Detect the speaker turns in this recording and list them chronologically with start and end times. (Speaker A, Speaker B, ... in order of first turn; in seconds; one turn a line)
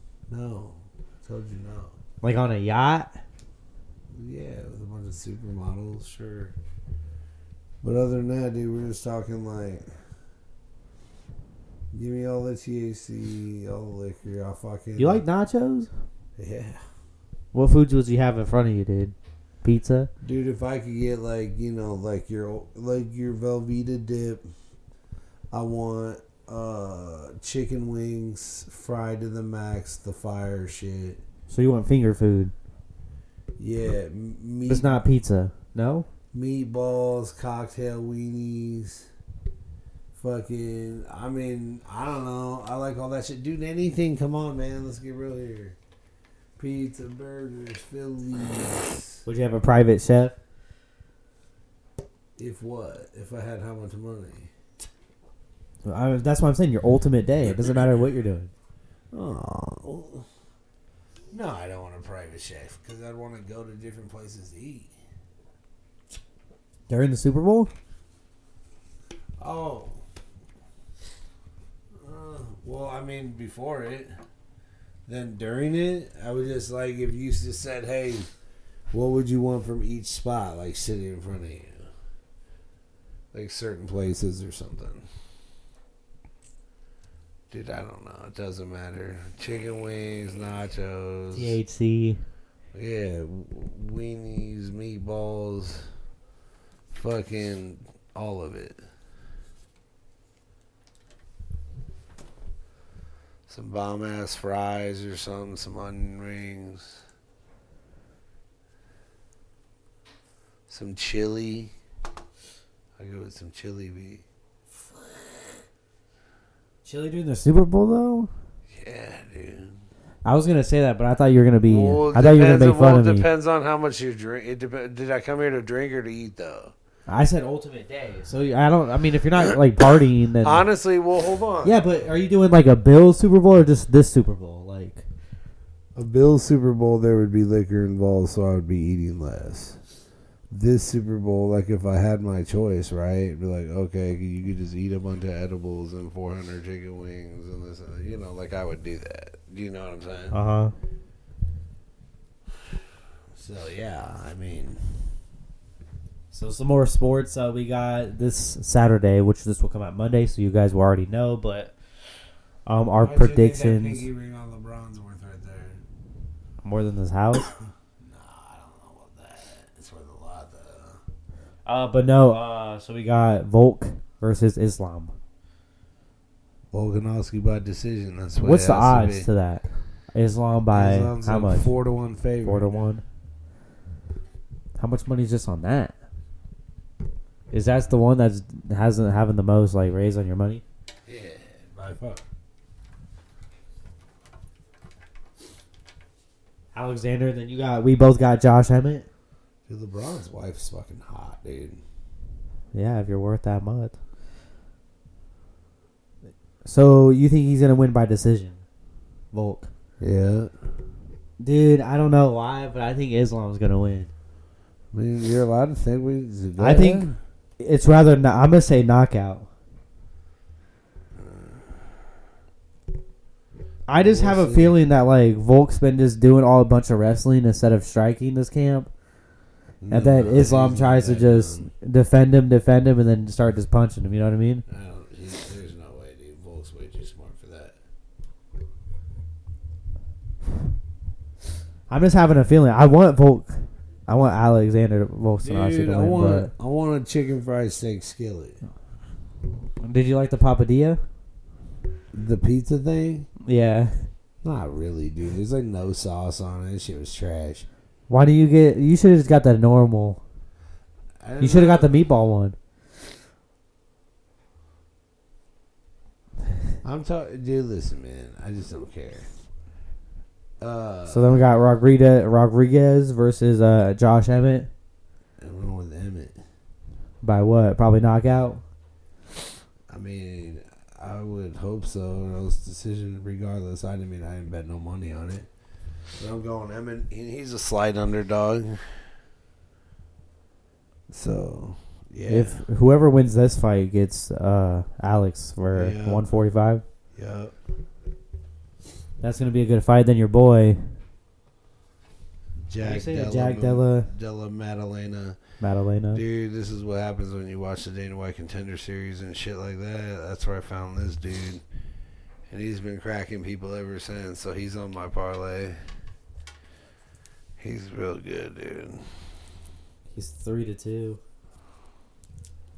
Speaker A: 0.3-2.0
Speaker B: 2.2-3.1
Speaker A: 4.1-6.5
Speaker A: 7.8-9.9
Speaker A: 11.9-15.2
Speaker B: 15.0-15.9
Speaker A: 16.4-16.8
Speaker B: 17.5-20.1
Speaker A: 20.2-24.4
Speaker A: 25.5-31.2
Speaker B: 31.5-32.5
Speaker A: 33.6-35.0
Speaker B: 34.6-36.1
Speaker A: 36.3-39.1
Speaker A: 40.2-45.8
Speaker A: 46.6-49.2
Speaker B: 49.2-50.3
Speaker A: 52.4-54.5
Speaker B: 55.8-58.5
Speaker A: 57.4-57.9
Speaker A: 59.1-60.2
Speaker A: 61.3-64.9
Speaker B: 66.9-67.7
Speaker A: 69.4-70.0
Speaker A: 72.0-74.1
Speaker A: 75.1-78.3
Speaker A: 78.9-81.9
Speaker A: 83.3-85.1
Speaker A: 87.5-91.6
Speaker B: 91.3-92.2
Speaker A: 92.7-95.9
Speaker A: 96.9-98.8
Speaker A: 103.5-107.0
Speaker A: 110.7-111.7
Speaker A: 113.0-114.2
Speaker B: 116.8-118.3
Speaker A: 118.7-119.8
Speaker B: 120.2-123.3
Speaker A: 121.7-126.7
Speaker B: 127.1-130.6
Speaker A: 130.4-131.9
Speaker B: 131.6-135.0
Speaker A: 135.9-139.8
Speaker A: 140.5-150.4
Speaker B: 150.3-150.7
Speaker A: 153.3-154.8
Speaker B: 156.3-161.7
Speaker B: 162.7-164.1
Speaker A: 163.0-165.8
Speaker B: 166.6-167.5
Speaker A: 168.0-171.0
Speaker B: 171.7-175.1
Speaker A: 176.7-179.3
Speaker B: 178.4-181.7
Speaker A: 180.7-182.8
Speaker B: 182.4-183.0
Speaker B: 184.8-185.9
Speaker B: 187.5-190.6
Speaker A: 191.1-192.2
Speaker B: 196.7-199.1
Speaker A: 199.7-201.8
Speaker B: 202.7-203.9
Speaker B: 206.6-208.6
Speaker B: 209.3-209.7
Speaker A: 210.0-210.5
Speaker B: 211.4-214.1
Speaker A: 214.9-217.2
Speaker B: 216.6-217.1
Speaker B: 217.6-219.5
Speaker A: 221.1-221.9
Speaker B: 223.9-228.9
Speaker A: 223.9-224.8
Speaker A: 229.8-231.7
Speaker B: 229.9-234.6
Speaker A: 234.7-237.8
Speaker B: 241.9-246.5
Speaker A: 245.4-248.6
Speaker B: 249.8-251.0
Speaker A: 252.1-253.3
Speaker B: 253.4-253.9
Speaker A: 254.4-257.7
Speaker B: 258.1-260.2
Speaker A: 261.2-262.0
Speaker B: 261.4-262.6
Speaker A: 266.8-269.3
Speaker A: 270.6-271.4
Speaker B: 271.1-274.7
Speaker A: 275.4-276.4
Speaker B: 277.2-278.6
Speaker A: 279.9-285.5
Speaker A: 286.2-288.8
Speaker A: 291.1-292.6
Speaker B: 292.3-296.8
Speaker A: 295.7-296.3
Speaker A: 297.1-297.5
Speaker B: 299.2-300.8
Speaker A: 302.6-305.4
Speaker B: 302.8-304.1
Speaker B: 305.6-306.2
Speaker A: 306.1-311.6
Speaker A: 312.5-315.8
Speaker A: 317.6-319.1
Speaker B: 320.1-321.2